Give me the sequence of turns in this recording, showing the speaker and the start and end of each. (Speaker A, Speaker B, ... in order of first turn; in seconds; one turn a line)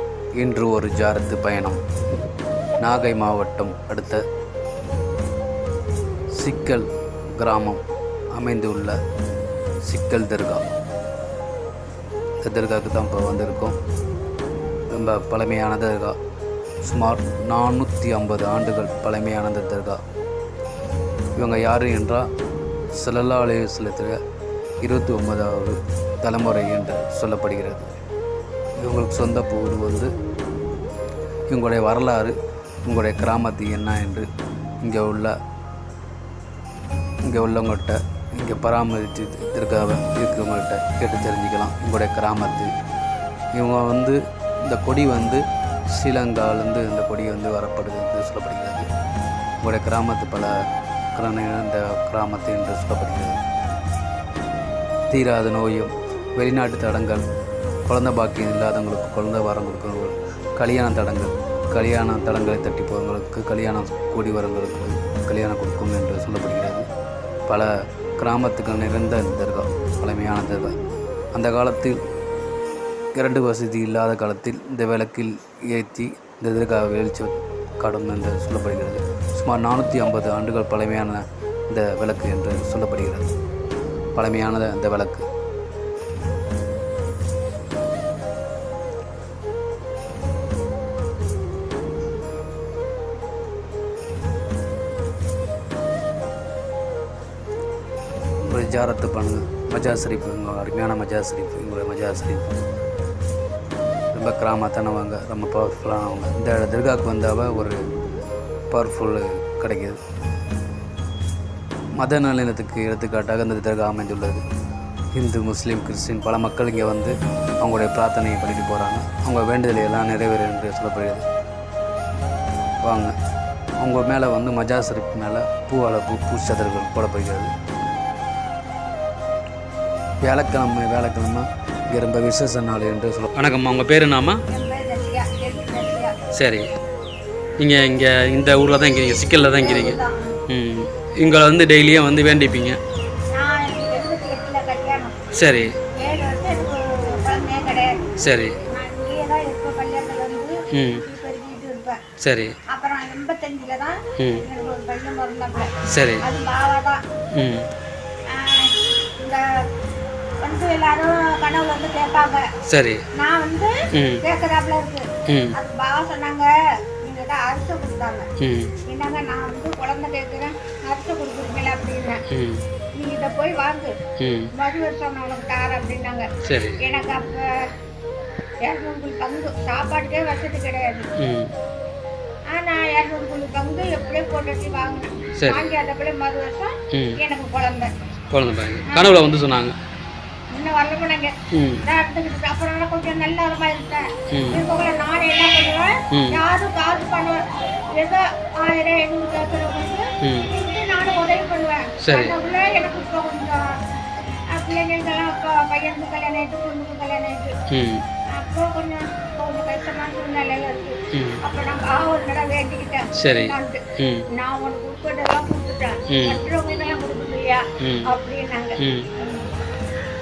Speaker A: 0.4-1.8
Speaker A: 2.8-4.2
Speaker A: 6.4-6.9
Speaker A: 7.4-7.8
Speaker A: 8.3-9.0
Speaker A: 9.9-10.7
Speaker A: 12.4-13.8
Speaker A: 14.9-16.2
Speaker A: 16.8-20.0
Speaker A: 21.4-22.3
Speaker A: 23.0-24.2
Speaker A: 24.8-27.9
Speaker A: 28.8-30.1
Speaker A: 31.5-32.3
Speaker A: 32.9-34.3
Speaker A: 34.8-35.3
Speaker A: 37.2-42.7
Speaker A: 43.5-48.9
Speaker A: 49.6-50.5
Speaker A: 51.2-53.4
Speaker A: 55.1-57.2
Speaker A: 57.9-66.9
Speaker A: 67.5-70.8
Speaker A: 71.3-72.0
Speaker A: 73.2-83.3
Speaker A: 84.2-85.3
Speaker A: 98.5-102.6
Speaker A: 104.1-107.8
Speaker A: 108.7-110.0
Speaker A: 112.0-114.4
Speaker A: 115.2-121.2
Speaker A: 122.8-123.1
Speaker A: 123.8-127.5
Speaker A: 130.2-134.4
Speaker B: 134.5-136.1
Speaker A: 136.3-136.7
Speaker A: 137.6-140.0
Speaker B: 139.5-140.3
Speaker A: 140.5-142.8
Speaker B: 143.3-145.1
Speaker A: 145.3-145.7
Speaker B: 146.0-147.9
Speaker A: 148.2-148.6
Speaker B: 148.7-152.0
Speaker A: 150.8-151.0
Speaker A: 152.2-152.6
Speaker B: 152.7-157.0
Speaker A: 154.2-154.4
Speaker A: 155.9-156.2
Speaker A: 157.3-157.7
Speaker B: 158.3-159.4
Speaker B: 160.4-162.4
Speaker A: 162.7-163.0
Speaker B: 163.2-163.7
Speaker A: 163.9-164.2
Speaker B: 164.2-165.0
Speaker A: 165.3-165.5
Speaker B: 165.6-166.5
Speaker B: 167.0-168.3
Speaker A: 168.4-168.7
Speaker B: 168.9-172.2
Speaker A: 172.3-172.6
Speaker B: 173.0-173.9
Speaker A: 174.2-174.5
Speaker B: 174.6-176.3
Speaker A: 176.4-176.8
Speaker B: 176.8-177.4
Speaker B: 178.7-181.1
Speaker A: 181.2-181.5
Speaker B: 182.5-187.9
Speaker A: 185.4-185.6
Speaker A: 186.9-187.2
Speaker A: 188.3-189.8
Speaker B: 188.9-189.3
Speaker B: 190.5-191.3
Speaker A: 191.5-191.8
Speaker B: 191.8-197.4
Speaker A: 194.3-194.6
Speaker A: 196.1-196.4
Speaker B: 198.0-203.6
Speaker A: 200.2-200.5
Speaker A: 202.0-202.3
Speaker B: 204.5-207.5
Speaker A: 207.7-208.0
Speaker B: 208.3-213.8
Speaker A: 211.1-211.4
Speaker A: 213.2-214.2
Speaker B: 214.4-218.8
Speaker A: 216.1-216.4
Speaker A: 217.8-218.1
Speaker A: 218.8-219.1